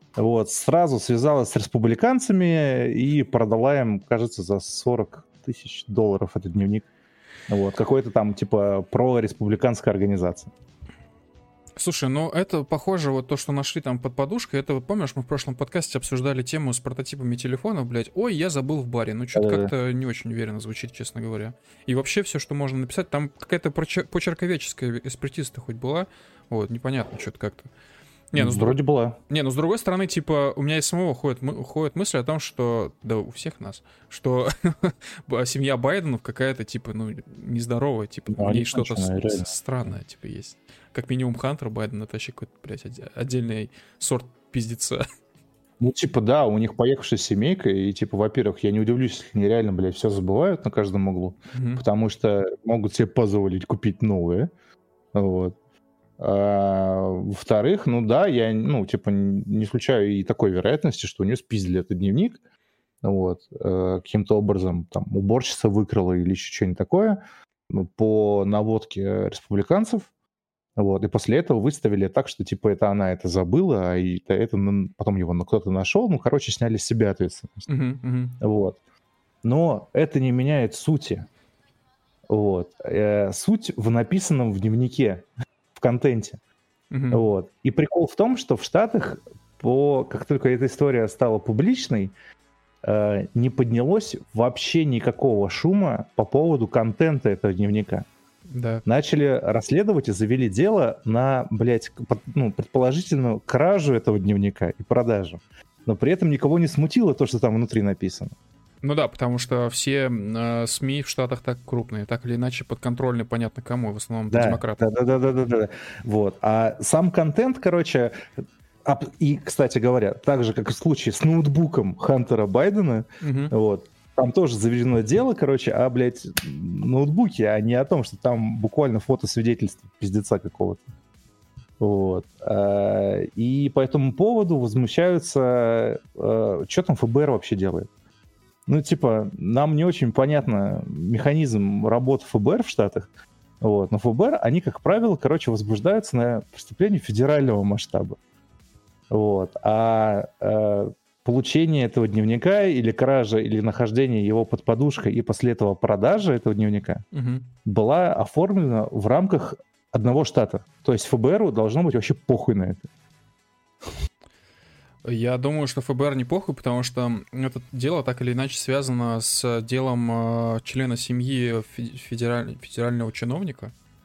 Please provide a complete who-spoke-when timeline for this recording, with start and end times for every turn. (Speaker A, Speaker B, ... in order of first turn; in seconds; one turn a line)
Speaker A: 0.2-6.9
Speaker A: 7.5-10.5
Speaker B: 11.8-27.7
Speaker A: 19.4-19.7
Speaker B: 28.3-28.8
Speaker A: 28.4-29.2
Speaker B: 29.3-45.0
Speaker A: 38.3-39.5
Speaker A: 45.8-54.5
Speaker B: 51.5-51.8
Speaker A: 55.1-55.5
Speaker A: 56.2-62.4
Speaker A: 63.0-70.1
Speaker A: 70.8-77.7
Speaker B: 77.7-78.4
Speaker A: 78.4-78.8
Speaker A: 79.4-81.3
Speaker A: 82.3-86.4
Speaker B: 86.9-87.3
Speaker A: 87.1-92.1
Speaker A: 92.8-98.1
Speaker B: 98.5-98.8
Speaker A: 98.9-108.4
Speaker B: 108.8-114.8
Speaker A: 114.3-118.3
Speaker A: 118.8-130.8
Speaker B: 123.2-123.5
Speaker A: 131.8-137.9
Speaker A: 138.7-143.1
Speaker A: 143.6-148.2
Speaker A: 149.1-157.1
Speaker B: 157.1-157.5
Speaker A: 157.7-162.9
Speaker B: 165.1-173.7